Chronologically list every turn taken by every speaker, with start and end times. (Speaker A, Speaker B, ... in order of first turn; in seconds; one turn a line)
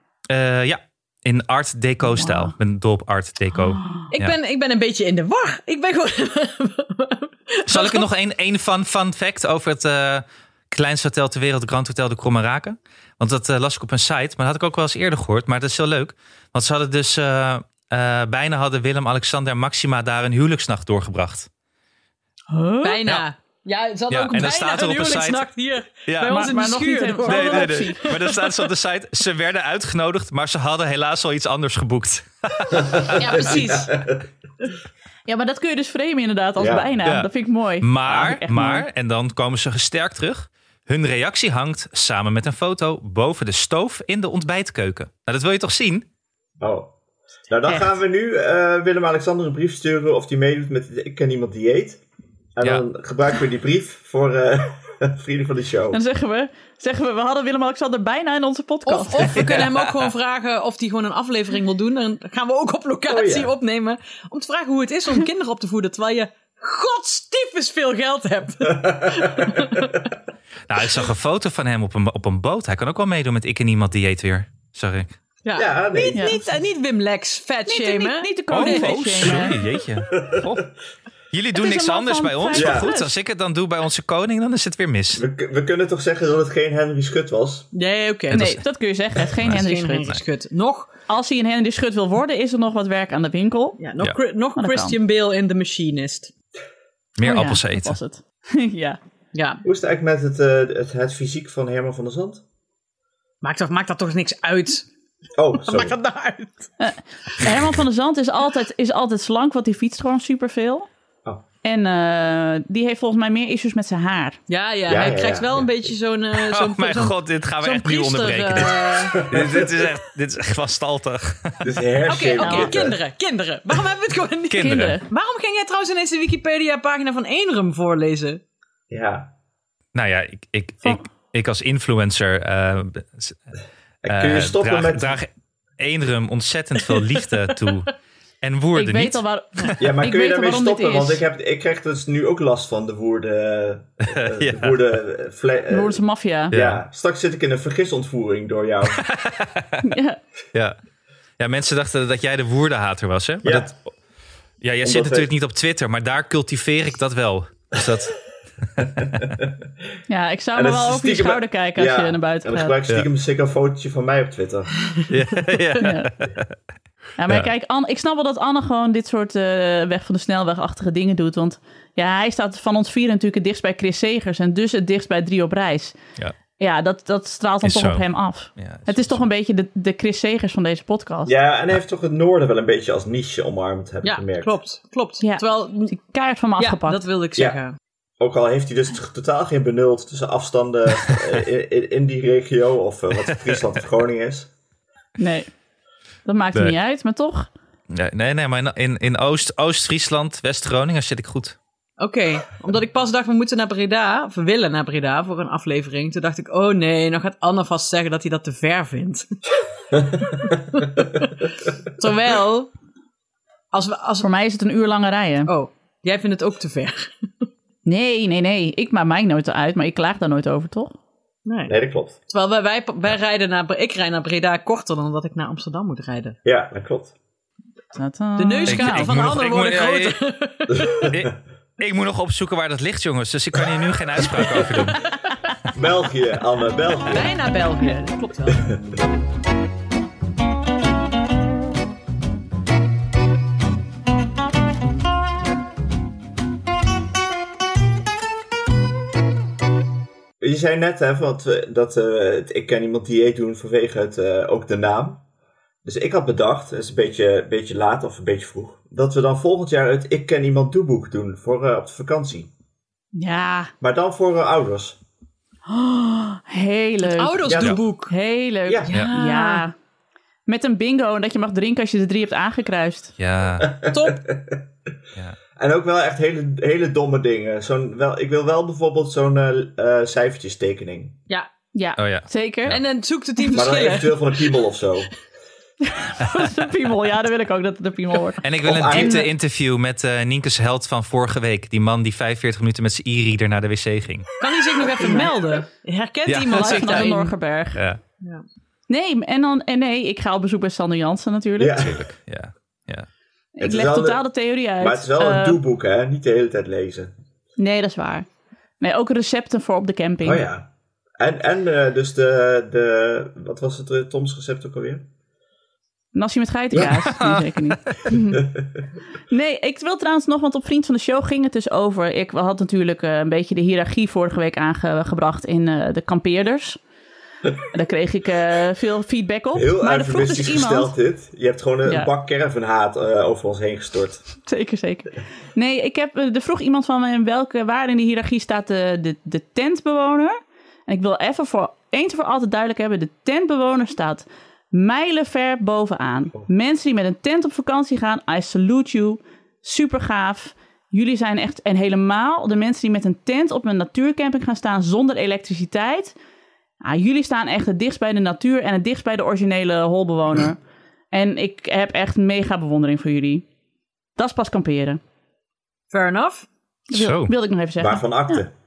Speaker A: 0.3-4.3
Speaker B: 2.0-2.5
Speaker B: 3.7-4.1
Speaker C: 4.1-8.1
Speaker A: 7.7-21.5
Speaker B: 22.5-23.0
Speaker C: 22.8-28.7
Speaker A: 24.1-25.4
Speaker A: 26.1-26.4
Speaker B: 26.2-28.1
Speaker A: 27.2-33.6
Speaker D: 32.7-34.3
Speaker C: 33.1-33.9
Speaker B: 35.3-38.8
Speaker D: 36.6-36.9
Speaker A: 37.8-46.0
Speaker D: 46.6-46.9
Speaker D: 47.5-52.0
Speaker B: 47.7-48.0
Speaker D: 52.5-56.0
Speaker B: 55.9-59.5
Speaker C: 58.9-70.1
Speaker A: 59.4-60.1
Speaker D: 63.1-63.5
Speaker D: 68.7-69.8
Speaker A: 70.7-75.2
Speaker C: 75.4-79.5
Speaker D: 75.5-76.4
Speaker B: 76.1-76.4
Speaker B: 77.7-79.5
Speaker A: 78.5-80.7
Speaker D: 80.1-80.6
Speaker A: 81.3-85.2
Speaker B: 81.5-83.1
Speaker D: 82.5-82.9
Speaker D: 85.1-87.7
Speaker C: 87.7-88.5
Speaker A: 88.3-88.6
Speaker B: 88.3-90.1
Speaker A: 89.2-90.2
Speaker C: 89.4-90.9
Speaker B: 91.1-93.8
Speaker C: 93.8-96.3
Speaker B: 94.6-95.0
Speaker A: 97.2-98.0
Speaker B: 97.2-99.0
Speaker C: 99.3-99.6
Speaker D: 99.6-102.4
Speaker C: 103.4-104.9
Speaker D: 105.4-106.0
Speaker C: 105.6-106.7
Speaker B: 106.8-110.9
Speaker B: 111.6-114.4
Speaker C: 114.5-119.2
Speaker D: 114.9-115.7
Speaker A: 116.4-121.7
Speaker D: 119.0-119.8
Speaker D: 121.6-123.0
Speaker C: 122.1-128.4
Speaker B: 122.4-122.7
Speaker A: 124.5-125.0
Speaker B: 124.6-125.0
Speaker D: 128.9-129.3
Speaker A: 129.9-133.4
Speaker D: 134.0-135.2
Speaker A: 134.1-139.2
Speaker B: 138.7-141.2
Speaker D: 139.8-149.0
Speaker A: 144.1-144.8
Speaker B: 145.7-146.5
Speaker A: 146.5-146.8
Speaker A: 148.9-149.8
Speaker B: 149.8-150.2
Speaker A: 151.4-153.8
Speaker D: 153.4-153.7
Speaker A: 154.6-159.0
Speaker D: 154.8-155.3
Speaker D: 159.0-159.5
Speaker B: 160.1-162.8
Speaker D: 160.5-164.7
Speaker A: 165.1-166.5
Speaker B: 165.8-166.1
Speaker B: 167.2-176.0
Speaker B: 176.6-181.3
Speaker A: 177.6-178.0
Speaker A: 178.6-179.2
Speaker D: 181.2-184.5
Speaker C: 184.0-185.9
Speaker B: 185.2-187.0
Speaker C: 186.6-187.7
Speaker D: 188.2-194.5
Speaker B: 195.2-195.5
Speaker B: 196.2-197.5
Speaker A: 197.9-201.6
Speaker C: 202.0-209.3
Speaker C: 210.3-212.7
Speaker C: 213.7-214.3
Speaker B: 214.2-215.5
Speaker C: 215.5-217.1
Speaker B: 217.8-220.9
Speaker C: 221.4-221.8
Speaker D: 221.7-222.2
Speaker C: 222.3-226.3
Speaker D: 226.4-227.1
Speaker B: 227.9-229.2
Speaker C: 228.4-231.0
Speaker A: 228.7-230.2
Speaker D: 230.7-231.3
Speaker A: 231.0-235.0
Speaker D: 234.3-234.6
Speaker D: 235.7-237.3
Speaker C: 237.1-238.7
Speaker D: 250.4-255.2
Speaker D: 255.8-262.5
Speaker B: 263.1-263.7
Speaker D: 263.8-265.0
Speaker B: 265.7-269.7
Speaker C: 267.0-268.1
Speaker D: 267.4-267.8
Speaker D: 268.7-268.9
Speaker C: 268.9-269.6
Speaker B: 270.4-273.1
Speaker A: 273.2-273.8
Speaker D: 273.6-274.6
Speaker C: 273.9-274.2
Speaker D: 275.6-281.2
Speaker B: 281.7-282.8
Speaker A: 282.0-282.8
Speaker C: 282.7-284.5
Speaker B: 283.4-283.6
Speaker D: 283.5-285.1
Speaker B: 285.9-289.2
Speaker A: 288.4-294.3
Speaker D: 288.6-289.3
Speaker C: 294.4-297.3
Speaker A: 296.3-297.1
Speaker B: 296.5-297.8
Speaker A: 297.7-298.0
Speaker B: 298.9-301.8
Speaker D: 301.6-302.1
Speaker A: 301.8-303.1
Speaker B: 303.6-305.6
Speaker D: 303.6-304.2
Speaker D: 304.8-307.1
Speaker B: 307.6-308.2
Speaker B: 308.8-310.4
Speaker D: 310.2-315.1
Speaker B: 316.1-318.4
Speaker A: 316.8-318.0
Speaker D: 318.3-318.6
Speaker B: 319.3-326.8
Speaker B: 327.7-330.9
Speaker D: 329.5-334.2
Speaker B: 334.4-356.1
Speaker B: 356.8-360.6
Speaker B: 361.1-363.4
Speaker B: 364.2-365.0
Speaker C: 365.9-366.5
Speaker B: 366.9-368.4
Speaker A: 366.9-367.3
Speaker D: 367.8-368.5